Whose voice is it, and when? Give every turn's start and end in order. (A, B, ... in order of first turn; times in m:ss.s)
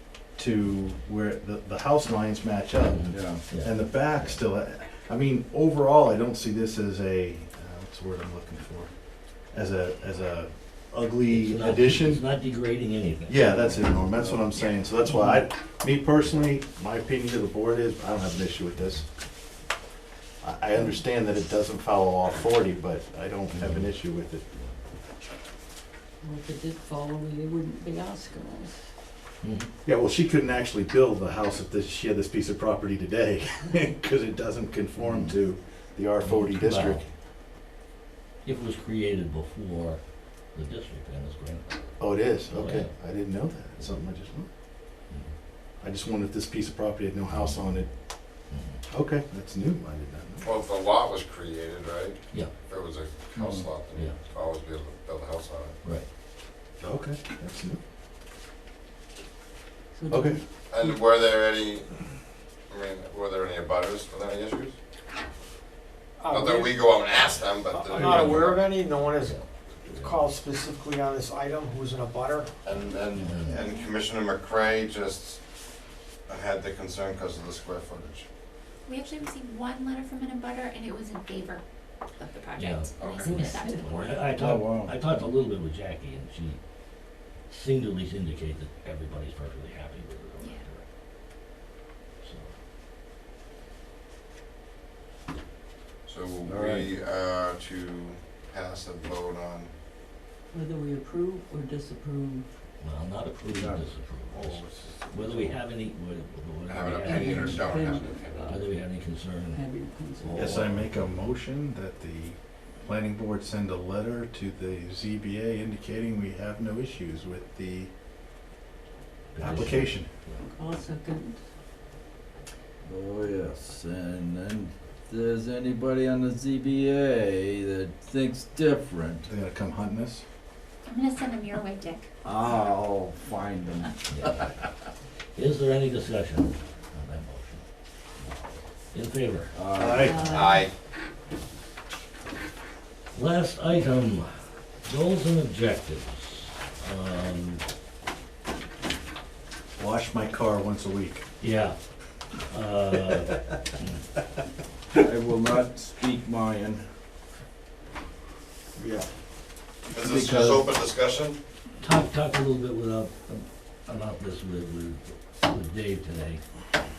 0:00.4-0:08.9 A
0:02.8-0:04.4 B
0:03.1-0:03.4 C
0:09.5-0:12.2 A
0:11.3-0:14.2 B
0:13.3-0:19.0 A
0:20.4-0:24.4 A
0:23.5-0:23.9 B
0:26.2-0:28.8 D
0:29.4-0:29.7 B
0:29.8-0:37.0 A
0:35.0-0:35.3 C
0:36.2-0:37.0 B
0:38.4-0:40.0 B
0:40.5-0:42.9 B
0:42.0-0:44.5 A
0:45.8-0:47.9 A
0:47.3-0:47.8 B
0:48.5-0:48.8 B
0:48.9-0:50.5 A
0:50.4-0:55.7 E
0:53.3-0:53.7 C
0:56.8-0:57.8 A
0:59.9-1:00.4 D
1:00.1-1:00.4 A
1:00.7-1:02.0 E
1:02.7-1:04.7 E
1:06.2-1:06.8 F
1:06.3-1:08.6 E
1:07.7-1:12.5 F
1:08.0-1:08.5 B
1:09.2-1:10.2 B
1:12.6-1:15.4 E
1:13.1-1:13.6 B
1:13.5-1:13.9 G
1:16.3-1:18.2 E
1:18.8-1:21.6 G
1:22.2-1:24.2 G
1:22.6-1:23.1 B
1:23.0-1:23.4 E
1:23.2-1:24.1 D
1:23.8-1:26.6 B
1:24.3-1:24.9 C
1:27.5-1:30.8 B
1:32.2-1:32.5 B
1:36.0-1:39.7 E
1:36.4-1:36.9 C
1:40.5-1:42.5 D
1:42.8-1:47.7 B
1:43.5-1:43.9 C
1:44.3-1:45.5 A
1:46.7-1:48.6 E
1:47.0-1:48.6 D
1:48.4-1:49.6 B
1:49.5-1:50.5 D
1:50.2-1:51.3 B
1:50.3-1:57.9 A
1:59.3-2:00.4 B
1:59.4-2:00.1 A
2:00.5-2:01.4 D
2:02.8-2:09.3 C
2:09.3-2:10.2 A
2:10.8-2:12.0 G
2:12.2-2:14.5 C
2:14.1-2:14.5 B
2:15.3-2:17.6 B
2:18.9-2:19.5 B
2:19.5-2:20.2 C
2:19.7-2:20.5 A
2:20.0-2:20.6 D
2:20.2-2:20.7 E
2:23.1-2:24.3 B
2:24.8-2:27.6 B
2:29.8-2:31.2 A
2:31.4-2:31.8 B
2:32.5-2:34.0 B
2:34.9-2:36.8 C
2:38.8-2:39.0 A
2:39.9-2:40.7 C
2:39.9-2:41.4 E
2:41.8-2:46.4 B